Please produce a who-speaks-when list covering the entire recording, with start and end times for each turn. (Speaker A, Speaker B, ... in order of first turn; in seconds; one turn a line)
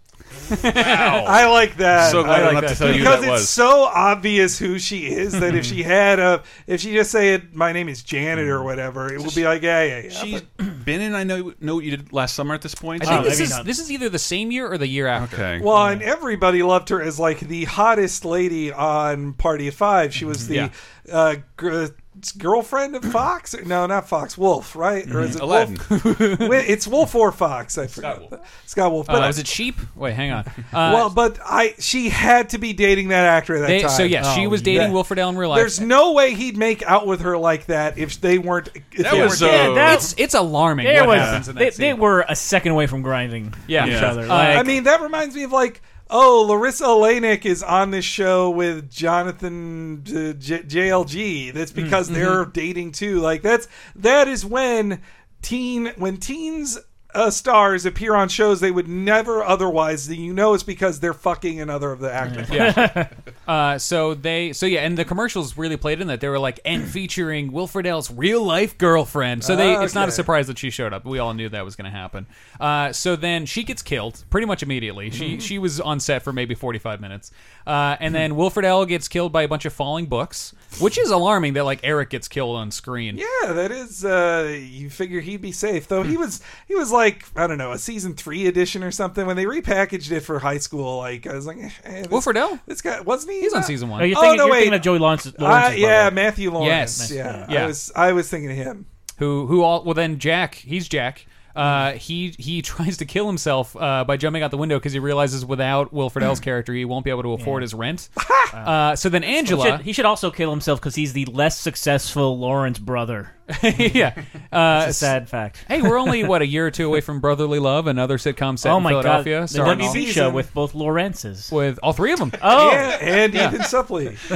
Speaker A: 0.7-1.3
Speaker B: 0.7-3.6
Speaker C: 1.2-10.4
Speaker A: 2.0-3.2
Speaker B: 10.1-13.5
Speaker A: 13.0-15.4
Speaker D: 13.0-13.7
Speaker B: 15.2-15.7
Speaker C: 15.6-29.4
Speaker B: 25.1-25.9
Speaker A: 25.9-26.7
Speaker B: 28.0-28.3
Speaker A: 29.1-31.2
Speaker C: 30.8-39.9
Speaker A: 33.6-35.9
Speaker D: 34.2-35.0
Speaker B: 39.0-40.1
Speaker A: 39.1-42.0
Speaker D: 39.1-40.1
Speaker D: 40.8-44.8
Speaker B: 41.1-41.5
Speaker A: 43.7-44.7
Speaker B: 43.8-44.2
Speaker C: 44.5-62.9
Speaker A: 51.8-52.4
Speaker D: 62.3-63.1
Speaker A: 62.5-83.2
Speaker C: 69.4-70.3
Speaker C: 75.2-75.5
Speaker C: 83.1-98.9
Speaker A: 92.1-92.6
Speaker A: 93.4-94.2
Speaker D: 94.0-96.2
Speaker A: 96.6-97.8
Speaker D: 96.9-97.5
Speaker A: 99.2-108.1
Speaker D: 107.4-107.7
Speaker C: 108.2-108.5
Speaker A: 108.6-109.9
Speaker D: 109.4-113.3
Speaker A: 113.5-120.0
Speaker D: 114.7-115.9
Speaker D: 118.6-121.5
Speaker C: 119.5-120.5
Speaker A: 121.5-122.8
Speaker D: 122.4-123.5
Speaker C: 122.5-124.2
Speaker A: 123.3-123.6